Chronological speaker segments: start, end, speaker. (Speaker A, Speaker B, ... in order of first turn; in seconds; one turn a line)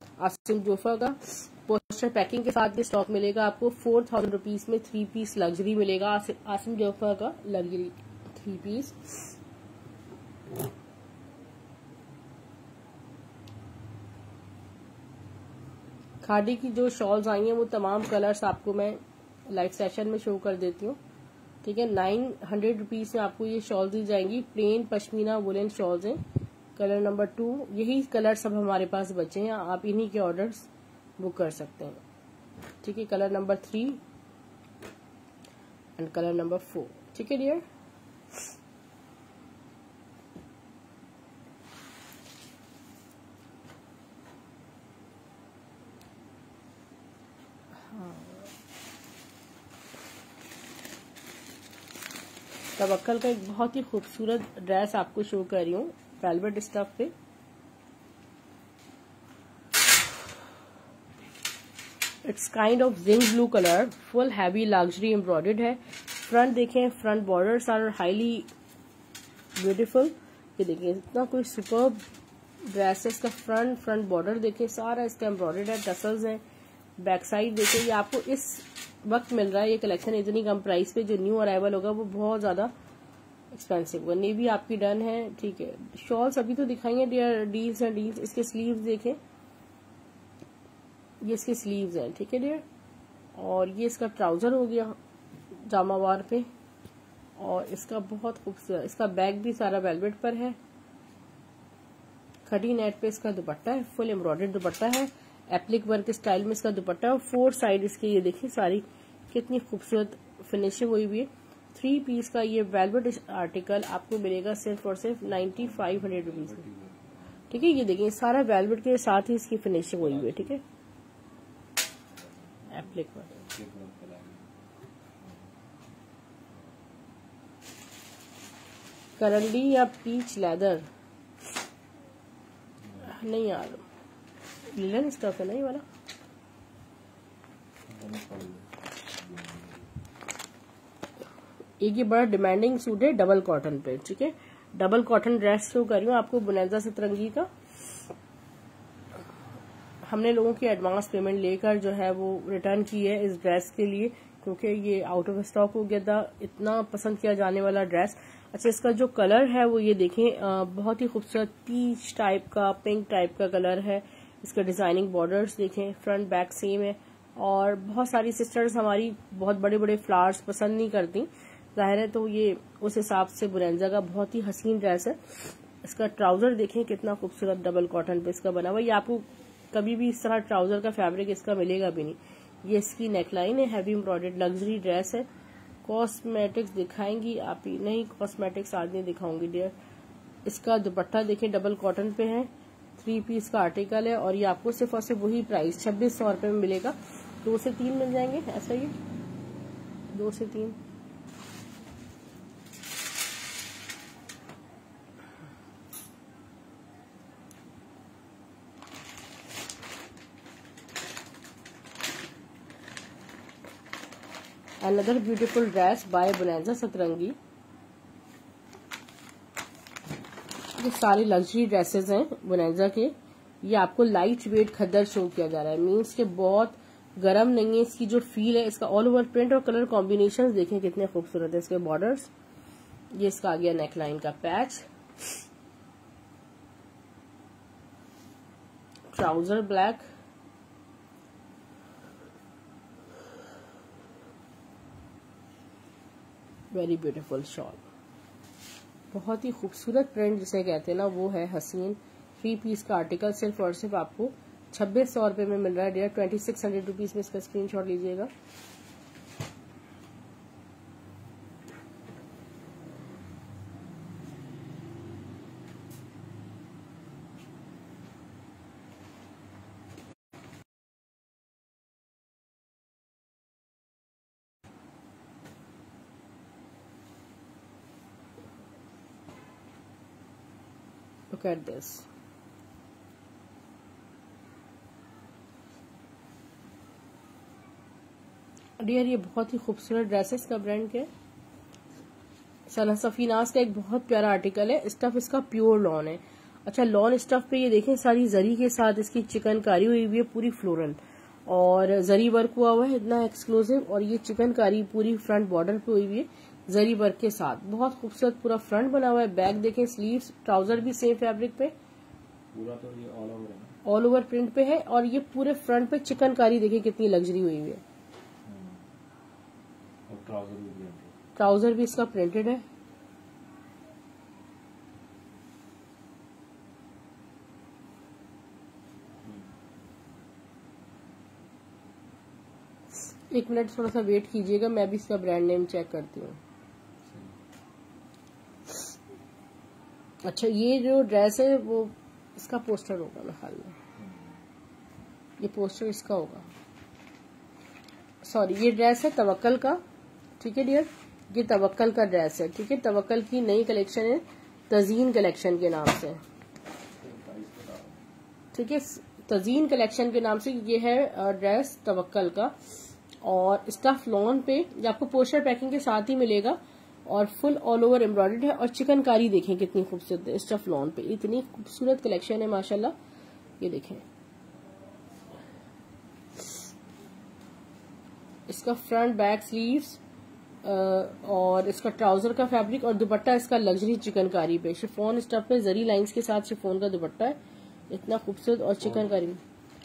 Speaker A: 0.2-9.3
Speaker A: 16.2-19.0
Speaker A: 19.5-21.0
Speaker A: 21.6-26.2
Speaker A: 26.8-30.7
Speaker A: 31.2-32.0
Speaker A: 32.8-34.0
Speaker A: 36.0-37.6
Speaker A: 47.9-48.5
Speaker A: 52.8-57.1
Speaker A: 62.2-68.5
Speaker A: 69.6-72.0
Speaker A: 72.7-76.4
Speaker A: 77.0-82.7
Speaker A: 83.5-89.2
Speaker A: 91.2-92.6
Speaker A: 93.4-95.0
Speaker A: 95.7-96.5
Speaker A: 97.4-100.6
Speaker A: 102.5-116.6
Speaker B: 115.3-117.8
Speaker A: 117.5-120.6
Speaker B: 120.0-120.6
Speaker B: 122.1-125.6
Speaker A: 122.7-123.3
Speaker B: 126.5-127.1
Speaker A: 129.2-130.9
Speaker B: 132.8-133.2
Speaker A: 133.0-133.8
Speaker A: 134.7-135.8
Speaker B: 137.9-140.0
Speaker A: 141.8-147.5
Speaker A: 150.1-185.3
Speaker A: 185.8-189.7
Speaker A: 190.5-198.9
Speaker A: 200.1-200.8
Speaker A: 214.8-217.4
Speaker A: 220.8-232.3
Speaker A: 233.2-234.9
Speaker A: 239.1-240.1
Speaker A: 246.7-247.8
Speaker A: 249.1-258.3
Speaker A: 281.3-282.1
Speaker A: 288.8-291.1
Speaker A: 292.7-311.7
Speaker B: 312.5-313.8
Speaker A: 313.9-317.8
Speaker B: 318.4-318.9
Speaker B: 320.1-321.1
Speaker A: 321.4-322.6
Speaker B: 329.2-329.5
Speaker A: 333.3-336.4
Speaker B: 337.0-337.4
Speaker A: 340.2-343.8
Speaker B: 344.0-344.4
Speaker A: 345.4-346.5
Speaker A: 348.2-349.8
Speaker A: 350.4-356.2
Speaker B: 357.0-358.0
Speaker A: 358.5-362.5
Speaker A: 363.2-372.9
Speaker A: 373.6-374.0
Speaker A: 378.5-380.0
Speaker A: 380.6-387.4
Speaker A: 387.9-389.4
Speaker B: 388.8-389.3